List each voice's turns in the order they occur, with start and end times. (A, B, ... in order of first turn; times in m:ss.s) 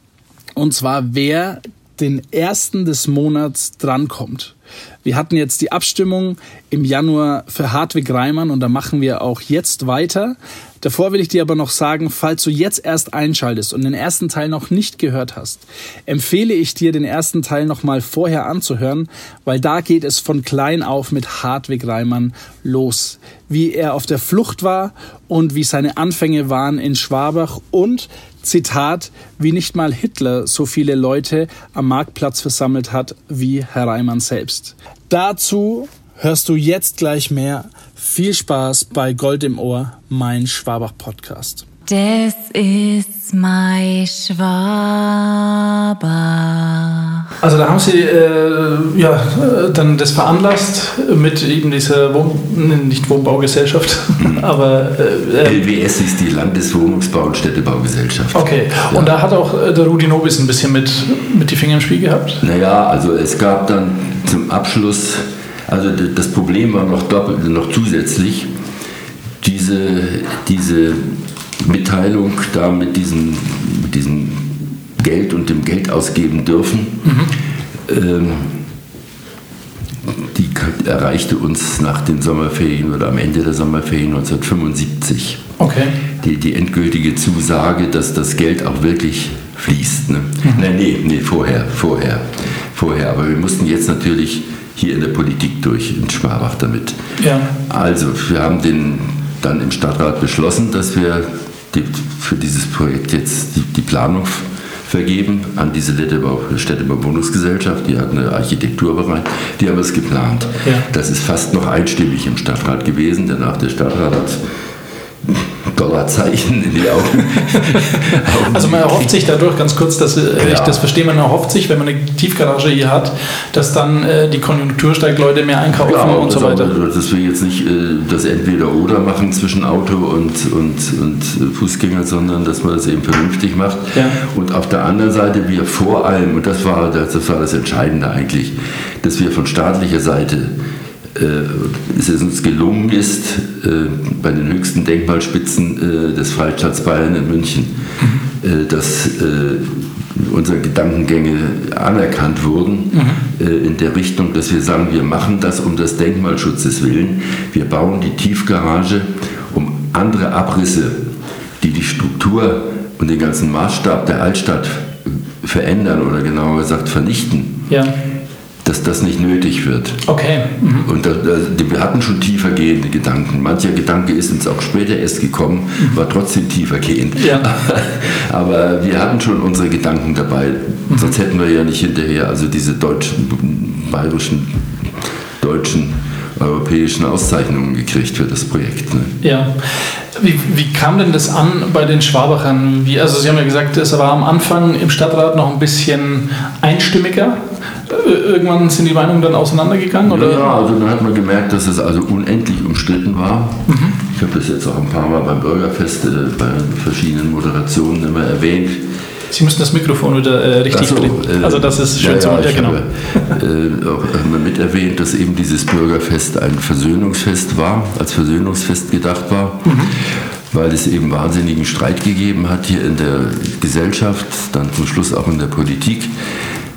0:00.6-0:41.6 A
0:41.9-0:47.3 B
0:47.4-0:55.6 A
0:54.2-0:54.4 C
0:55.4-0:59.1 C
0:58.3-1:02.4 A
1:02.4-1:08.5 C
1:09.4-1:17.0 C
1:17.0-1:17.3 A
1:17.9-1:18.6 C
1:20.2-1:25.4 C
1:25.6-1:25.9 A
1:26.2-1:37.0 C
1:37.2-1:37.5 A
1:37.6-1:54.4 C
1:55.2-1:59.1 C
1:57.5-2:06.7 A
2:00.4-2:00.8 C
2:05.7-2:20.5 C
2:21.1-2:27.8 C
2:28.0-2:28.2 A
2:28.4-2:41.1 C
2:32.9-2:33.2 A
2:41.6-2:47.7 C
2:47.7-2:47.9 A
2:48.6-2:50.0 C
2:50.0-2:50.9 A
2:50.8-3:04.7 C
2:57.2-2:57.4 A
3:05.4-3:09.1 C
3:09.2-3:20.5 A
3:20.0-3:28.8 C
3:23.7-3:23.9 A
3:29.3-3:33.2 A
3:30.7-3:46.1 C
3:39.6-3:39.9 A